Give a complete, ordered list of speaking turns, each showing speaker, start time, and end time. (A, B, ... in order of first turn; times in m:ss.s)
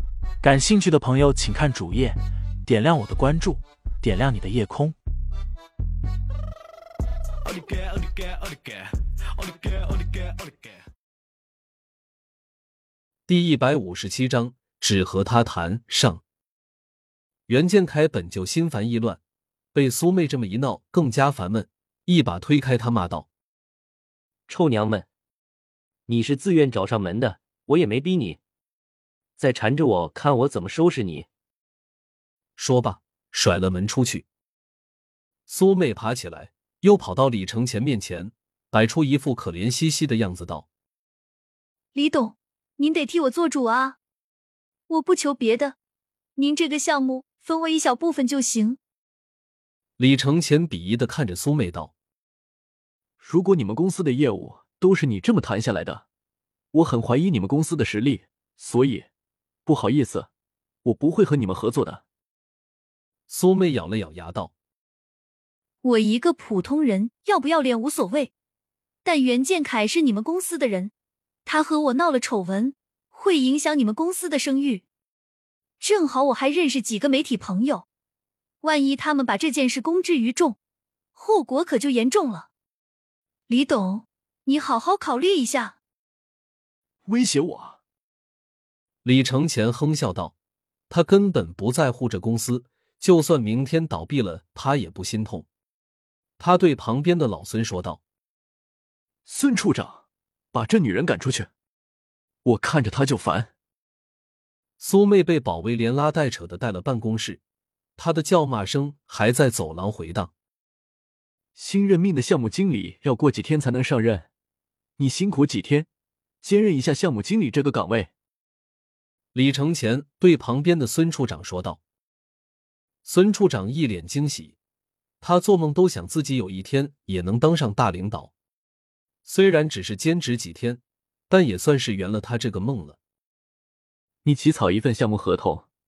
0:00.4-0:02.1 A
0:02.6-0:04.9 A
0:13.3-0:16.2 B
0:17.5-0:19.2 B
0:19.8-0:23.3 B
0:24.5-0:25.1 C
0:26.1-0:28.4 C
0:29.4-0:31.3 C
0:32.6-0:34.2 B
0:35.5-0:40.7 B
0:41.9-0:44.0 D
0:44.9-0:45.8 D
0:46.4-0:48.8 D
0:50.0-0:51.9 B
0:53.2-0:56.0 E
0:56.7-0:59.1 E
0:59.7-1:00.3 E
1:00.8-1:02.0 E
1:03.3-1:04.5 B
1:05.8-1:08.3 D
1:09.0-1:10.9 D
1:11.4-1:14.8 D
1:15.8-1:17.8 D
1:18.6-1:20.6 D
1:21.2-1:22.5 D
1:23.5-1:25.8 D
1:27.1-1:27.8 E
1:29.0-1:30.3 B
1:30.9-1:35.5 B
1:36.4-1:38.0 B
1:39.3-1:40.0 E
1:40.5-1:41.5 E
1:42.4-1:43.5 E
1:44.8-1:47.4 B
1:48.0-1:50.3 B
1:51.6-1:54.3 E
1:55.0-1:55.9 E
1:56.4-1:58.1 E
1:59.3-2:01.8 B
2:03.0-2:04.6 B
2:05.2-2:08.3 B
2:09.2-2:13.0 B
2:14.2-2:15.6 E